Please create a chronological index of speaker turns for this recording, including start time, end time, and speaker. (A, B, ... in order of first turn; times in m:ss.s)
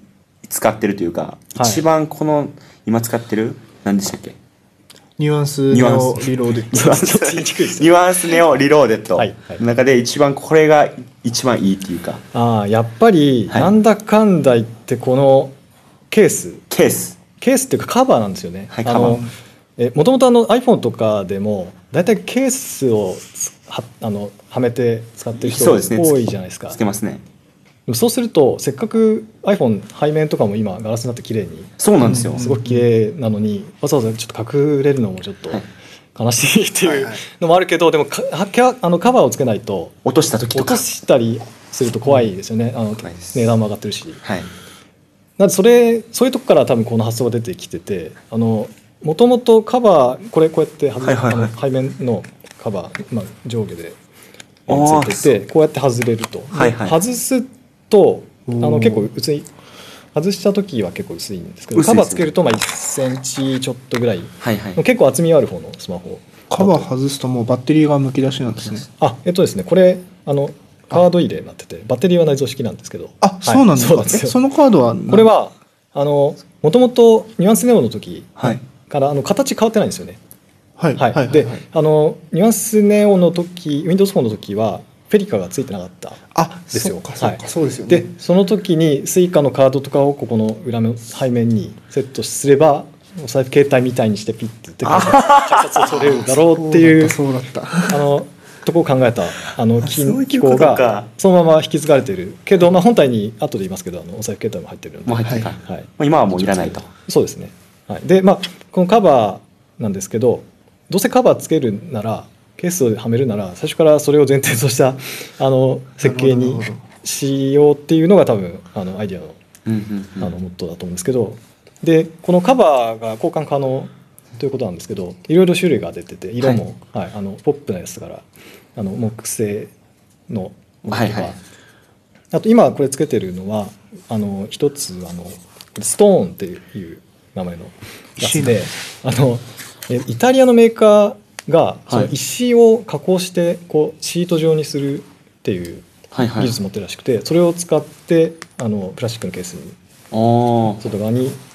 0:00.4-0:04.4 A
0:01.6-0:01.8 B
0:05.2-0:07.0 C
0:05.7-0:12.2 A
0:06.7-0:07.9 B
0:09.2-0:09.6 B
0:12.3-0:15.5 B
0:16.1-0:16.6 B
0:16.7-0:17.2 A
0:17.4-0:26.8 B
0:18.7-0:19.2 A
0:25.4-0:27.2 A
0:27.9-0:35.6 B
0:31.8-0:32.4 A
0:32.0-0:32.8 C
0:36.2-0:40.0 B
0:36.8-0:37.2 C
0:40.0-0:40.8 A
0:40.5-0:44.2 B
0:43.0-0:43.5 A
0:44.2-0:44.5 A
0:45.4-0:54.0 B
0:51.0-0:51.5 A
0:54.7-0:59.5 B
0:54.7-0:55.3 A
0:56.5-0:57.0 A
0:58.5-0:59.1 C
1:00.1-1:06.9 B
1:01.7-1:02.3 A
1:04.4-1:04.8 A
1:06.5-1:08.8 C
1:09.0-1:14.4 B
1:13.2-1:15.3 C
1:15.1-1:20.2 B
1:20.8-1:21.5 C
1:21.0-1:37.2 B
1:26.3-1:28.1 C
1:34.9-1:35.6 A
1:36.3-1:38.0 C
1:37.9-1:59.4 B
1:40.1-1:41.0 A
1:45.1-1:46.9 A
1:56.0-1:56.8 C
1:59.6-2:00.3 A
2:00.2-2:08.2 B
2:08.8-2:09.7 B
2:10.3-2:11.4 B
2:10.9-2:11.3 A
2:12.3-2:29.8 B
2:18.2-2:18.6 C
2:26.1-2:26.5 A
2:30.1-2:30.8 A
2:30.8-2:31.4 B